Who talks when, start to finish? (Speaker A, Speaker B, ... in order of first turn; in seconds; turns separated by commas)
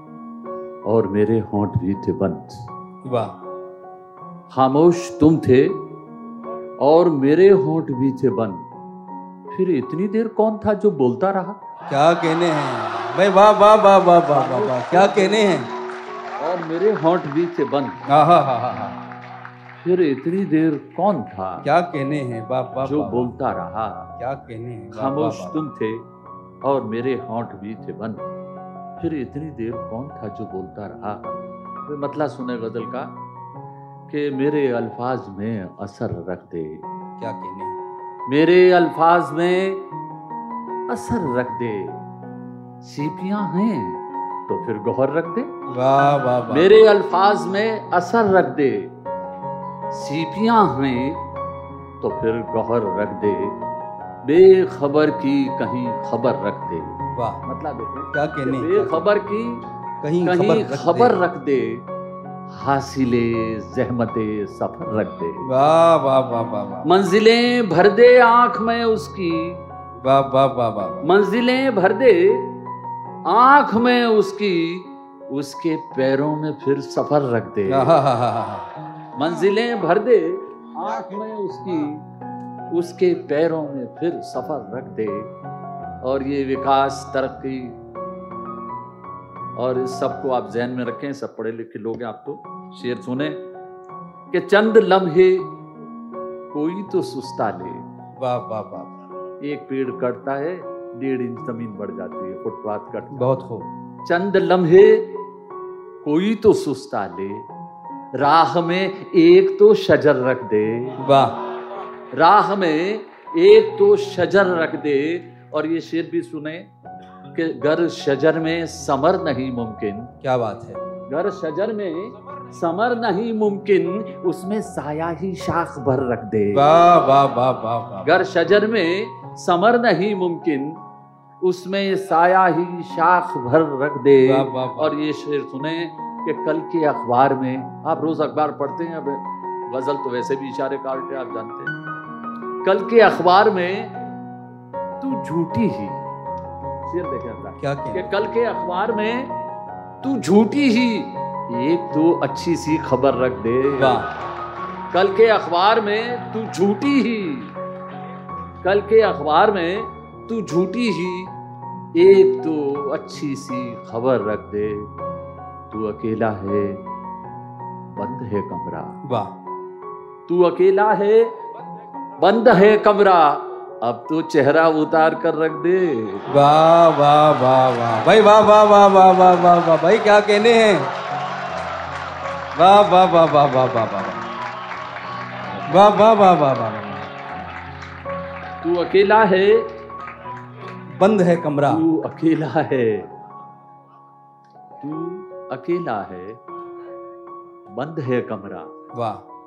Speaker A: 0.8-2.6, Speaker B: 3.1-3.3, Speaker A: 4.5-5.7, Speaker A: 6.8-8.6, Speaker A: 9.5-11.6, Speaker B: 11.9-15.7, Speaker A: 14.3-15.4, Speaker A: 16.4-18.0, Speaker B: 18.1-19.0, Speaker A: 19.8-21.7, Speaker B: 21.6-23.3, Speaker A: 22.8-24.1, Speaker B: 24.2-25.6, Speaker A: 24.9-26.0, Speaker A: 26.6-28.2, Speaker A: 29.0-33.1, Speaker A: 34.1-36.8, Speaker B: 37.2-37.8, Speaker A: 38.3-39.8, Speaker A: 40.9-42.0, Speaker A: 42.8-45.5, Speaker B: 45.7-46.7, Speaker A: 46.5-48.9, Speaker A: 49.9-51.2, Speaker A: 52.0-53.5, Speaker A: 54.2-59.6, Speaker B: 57.1-57.4, Speaker B: 58.1-59.1, Speaker B: 60.0-61.1, Speaker A: 60.2-61.8, Speaker A: 62.6-65.5, Speaker B: 65.5-66.9, Speaker A: 66.8-69.6, Speaker B: 70.0-71.0, Speaker A: 71.0-72.5, Speaker A: 73.3-77.9, Speaker B: 77.7-78.7, Speaker A: 79.2-82.0, Speaker A: 82.7-85.3, Speaker A: 86.0-87.8, Speaker A: 89.6-93.4, Speaker A: 94.3-95.5, Speaker A: 96.5-97.8, Speaker B: 98.2-98.9, Speaker A: 99.4-103.3, Speaker B: 103.2-103.7, Speaker A: 104.0-105.1, Speaker A: 106.0-107.4, Speaker A: 108.2-111.0, Speaker B: 111.0-111.4, Speaker A: 112.1-116.7, Speaker A: 117.3-120.1, Speaker B: 120.2-120.8, Speaker A: 121.1-126.7, Speaker B: 126.5-128.2, Speaker A: 128.1-130.8, Speaker A: 131.4-141.7, Speaker B: 134.3-134.9, Speaker A: 142.6-143.9, Speaker A: 145.0-146.0, Speaker A: 146.8-149.3, Speaker B: 147.6-148.1, Speaker A: 150.0-154.0, Speaker B: 153.8-154.1, Speaker A: 154.9-157.5, Speaker A: 158.6-161.3, Speaker A: 161.9-164.9, Speaker A: 165.7-166.8, Speaker A: 167.9-169.0, Speaker B: 169.1-169.3, Speaker A: 170.3-171.3, Speaker A: 172.2-176.3, Speaker B: 176.3-180.9, Speaker B: 182.6-184.2, Speaker B: 185.7-187.1, Speaker A: 188.6-189.7, Speaker B: 190.9-191.8, Speaker A: 191.7-193.1, Speaker A: 194.8-196.4, Speaker A: 197.8-198.7, Speaker B: 198.9-199.2